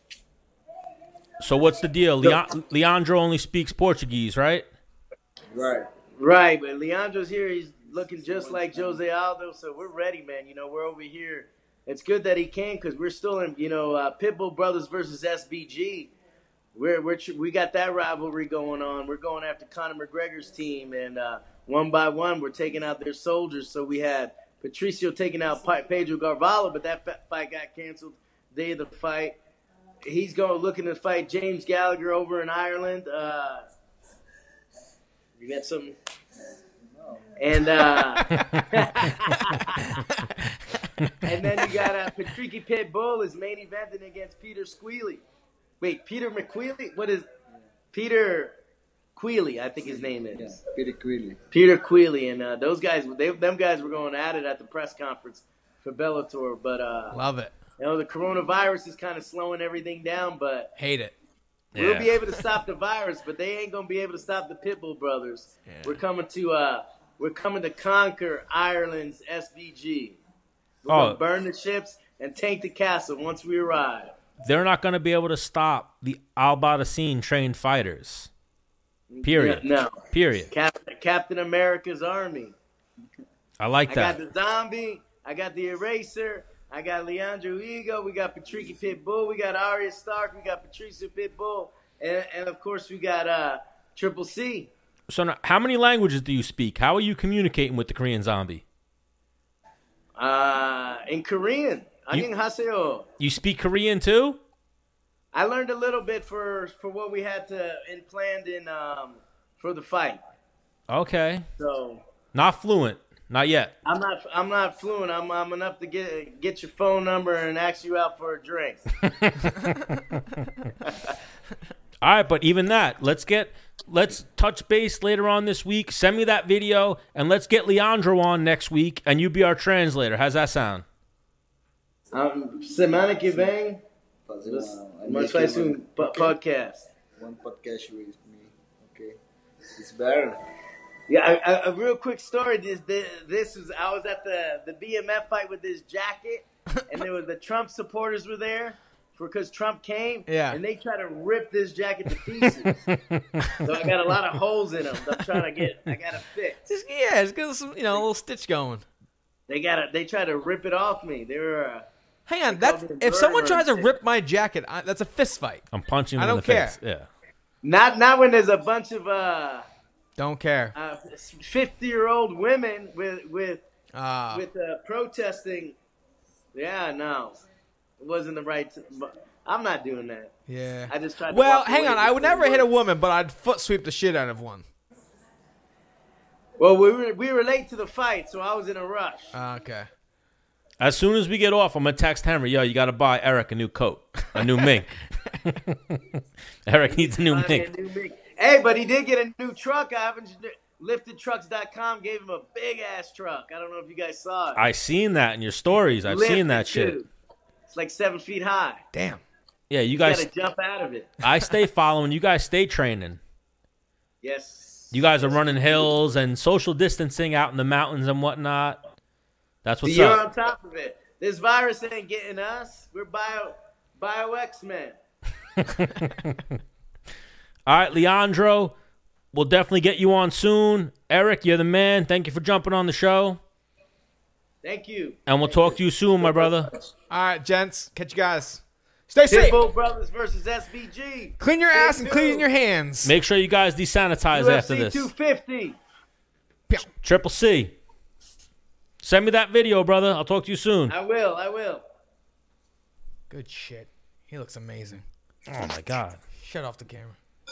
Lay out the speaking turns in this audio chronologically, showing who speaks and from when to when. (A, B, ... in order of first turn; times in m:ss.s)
0:01.4-0:04.7 A
0:05.5-0:05.9 B
0:06.2-0:16.1 C
0:08.2-0:09.0 B
0:16.7-0:29.4 C
0:30.0-0:33.6 C
0:35.4-0:36.0 C
0:36.9-0:37.6 B
0:37.4-0:40.0 C
0:38.2-0:38.6 D
0:38.3-0:38.6 A
0:39.5-0:41.9 D
0:41.2-0:45.2 C
0:45.8-0:47.2 C
0:47.9-0:48.5 C
0:49.2-0:50.6 C
0:49.8-0:51.4 B
0:51.5-0:57.2 C
0:57.1-0:57.6 D
0:57.8-1:00.7 C
1:00.8-1:01.1 D
1:01.7-1:02.2 A
1:01.8-1:10.2 C
1:05.7-1:06.0 D
1:10.8-1:14.1 C
1:10.9-1:11.2 A
1:14.4-1:18.3 A
1:19.1-1:20.0 C
1:19.2-1:20.5 A
1:20.5-1:22.5 C
1:23.6-1:24.2 A
1:23.9-1:34.7 C
1:35.1-1:38.6 A
1:40.2-1:43.1 C
1:43.2-1:44.4 A
1:45.3-1:50.2 C
1:50.9-1:51.4 A
1:51.6-1:52.0 C
1:52.3-1:53.7 A
1:53.8-1:58.8 C
1:59.0-2:00.2 A
2:00.8-2:01.2 C
2:02.0-2:10.8 A
2:12.1-2:13.8 C
2:14.3-2:16.3 B
2:14.4-2:16.9 C
2:17.2-2:19.2 B
2:19.8-2:20.4 B
2:21.1-2:32.8 C
2:26.8-2:27.0 D
2:30.3-2:30.6 D
2:32.9-2:33.6 A
2:33.6-2:36.6 C
2:35.2-2:35.5 D
2:36.7-2:38.8 D
2:39.5-2:41.9 C
2:42.3-2:45.6 D
2:42.5-2:43.9 C
2:45.7-2:47.1 A
2:46.2-2:46.8 D
2:47.6-2:49.6 C
2:50.2-2:50.7 D
2:50.7-2:53.6 C
2:53.9-2:54.4 D
2:54.3-2:55.7 C
2:56.5-2:57.3 C
2:58.0-3:00.3 C
3:00.5-3:04.6 D
3:00.9-3:02.7 C
3:06.6-3:09.3 C
3:09.3-3:09.9 D
3:10.8-3:16.0 A
3:16.6-3:17.7 A
3:16.9-3:24.6 C
3:24.5-3:27.0 A
3:26.1-3:27.1 C
3:27.7-3:28.8 C
3:28.9-3:29.2 D
3:29.7-3:30.2 A
3:30.0-3:31.2 C
3:31.2-3:33.2 A
3:34.2-3:35.9 C
3:34.9-3:38.8 A
3:39.6-3:40.2 A
3:39.8-3:45.0 C
3:45.6-3:46.6 A
3:47.7-3:48.7 A
3:49.3-3:53.4 A
3:54.6-3:56.7 C
3:55.3-3:56.7 A
3:57.1-3:59.6 D
3:59.3-4:02.4 C
4:01.4-4:03.2 D
4:03.0-4:05.1 A
4:04.3-4:05.8 C
4:07.0-4:07.8 A
4:09.0-4:10.9 A
4:10.9-4:11.8 C
4:13.3-4:15.0 D
4:15.5-4:16.2 A
4:16.3-4:17.2 D